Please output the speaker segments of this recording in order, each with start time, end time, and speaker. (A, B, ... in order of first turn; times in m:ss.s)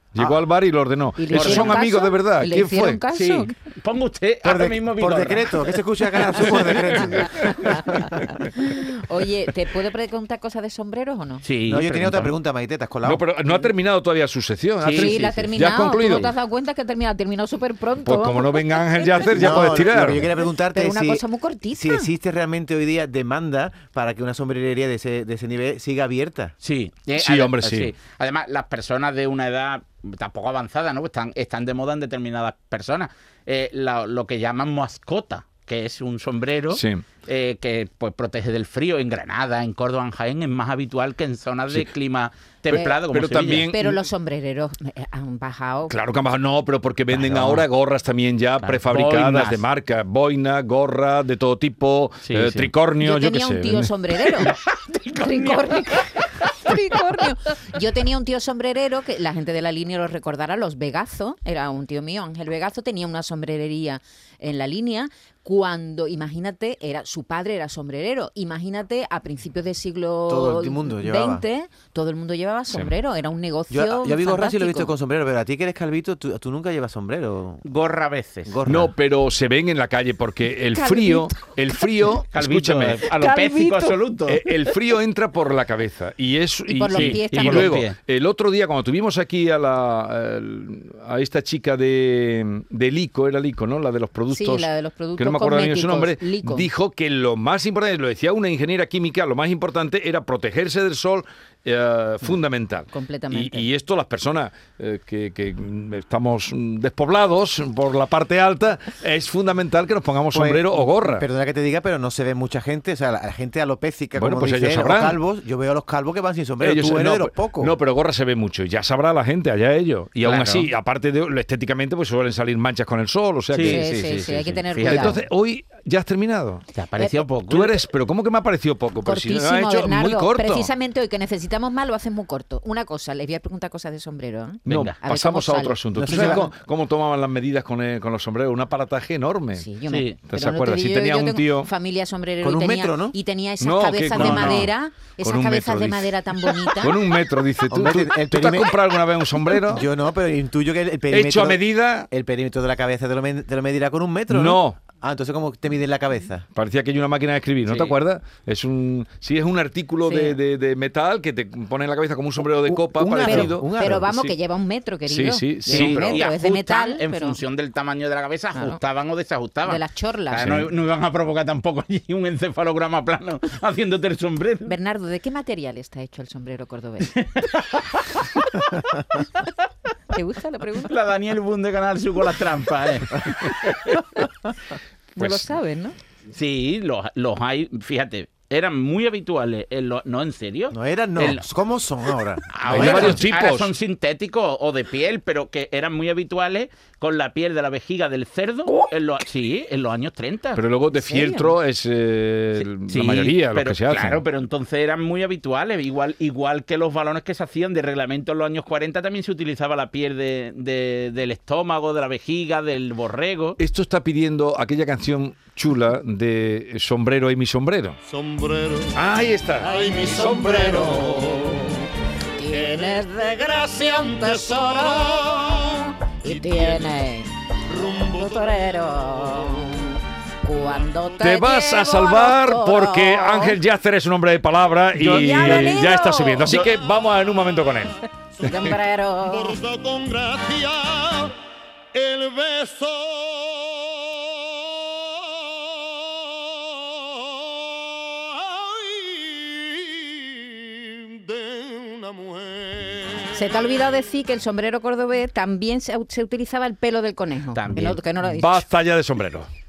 0:00.1-0:03.0 A
0:01.2-0:03.5 B
0:01.3-0:01.8 C
0:03.1-0:06.6 C
0:04.4-0:08.1 D
0:06.5-0:07.6 A
0:07.4-0:11.4 B
0:11.4-0:12.4 C
0:11.7-0:13.3 D
0:13.0-0:16.3 A
0:14.8-0:15.4 C
0:14.9-0:19.9 B
0:18.0-0:20.3 A
0:19.3-0:26.5 D
0:20.4-0:22.1 B
0:26.6-0:43.8 C
0:27.2-0:27.9 A
0:36.7-0:37.0 A
0:42.7-0:43.9 A
0:42.7-0:43.0 B
0:43.7-0:46.0 B
0:45.9-0:53.9 A
0:47.1-0:47.7 C
0:48.6-0:49.6 C
0:52.2-0:52.7 C
0:53.0-0:54.5 B
0:54.4-0:56.2 C
0:55.2-1:14.9 B
1:10.3-1:11.4 D
1:13.7-1:17.6 D
1:17.6-1:18.6 C
1:18.4-1:18.9 D
1:18.6-1:23.0 A
1:20.7-1:21.8 B
1:22.3-1:24.4 C
1:23.1-1:24.0 B
1:24.3-1:51.2 A
1:26.7-1:27.8 B
1:26.9-1:28.0 C
1:34.3-1:36.7 B
1:42.9-1:43.7 B
1:50.3-1:57.7 D
1:54.2-1:55.2 A
1:56.6-2:06.6 A
2:00.2-2:00.7 C
2:03.5-2:05.2 C
2:03.6-2:05.2 B
2:06.7-2:07.8 C
2:07.4-2:10.7 A
2:09.0-2:16.4 B
2:14.7-2:15.0 C
2:14.7-2:21.7 A
2:15.9-2:16.5 D
2:19.5-2:27.0 B
2:19.9-2:20.2 C
2:22.4-2:23.2 D
2:23.6-2:24.7 A
2:24.1-2:24.7 C
2:25.2-2:26.1 A
2:26.8-2:29.9 A
2:27.7-2:28.7 D
2:29.6-2:36.4 D
2:31.1-2:32.1 A
2:34.3-2:34.8 A
2:36.5-2:44.3 A
2:37.6-2:38.0 C
2:40.0-2:40.4 B
2:42.6-2:44.2 D
2:43.2-2:47.4 B
2:45.1-2:46.1 A
2:45.6-2:54.7 C
2:48.5-2:48.8 B
2:49.6-2:50.5 B
2:50.4-2:50.7 A
2:54.6-2:57.2 B
2:57.1-2:58.4 C
3:00.1-3:00.9 B
3:00.9-3:04.0 C
3:05.2-3:06.0 B
3:05.2-3:05.4 A
3:06.3-3:11.5 C
3:10.7-3:13.2 D
3:12.5-3:20.6 C
3:12.6-3:13.7 A
3:20.6-3:24.2 A
3:20.9-3:21.5 B
3:22.6-3:33.6 C
3:33.6-3:38.0 A
3:38.4-3:38.8 E
3:38.9-3:41.6 A
3:40.9-3:41.8 B
3:42.4-3:53.6 B
3:51.2-3:58.7 A
3:54.9-3:56.7 B
3:58.4-3:59.6 B
3:59.7-4:01.3 E
4:01.9-4:03.2 E
4:11.5-4:12.6 E
4:13.3-4:18.7 B
4:17.5-4:18.0 C
4:18.2-4:19.5 A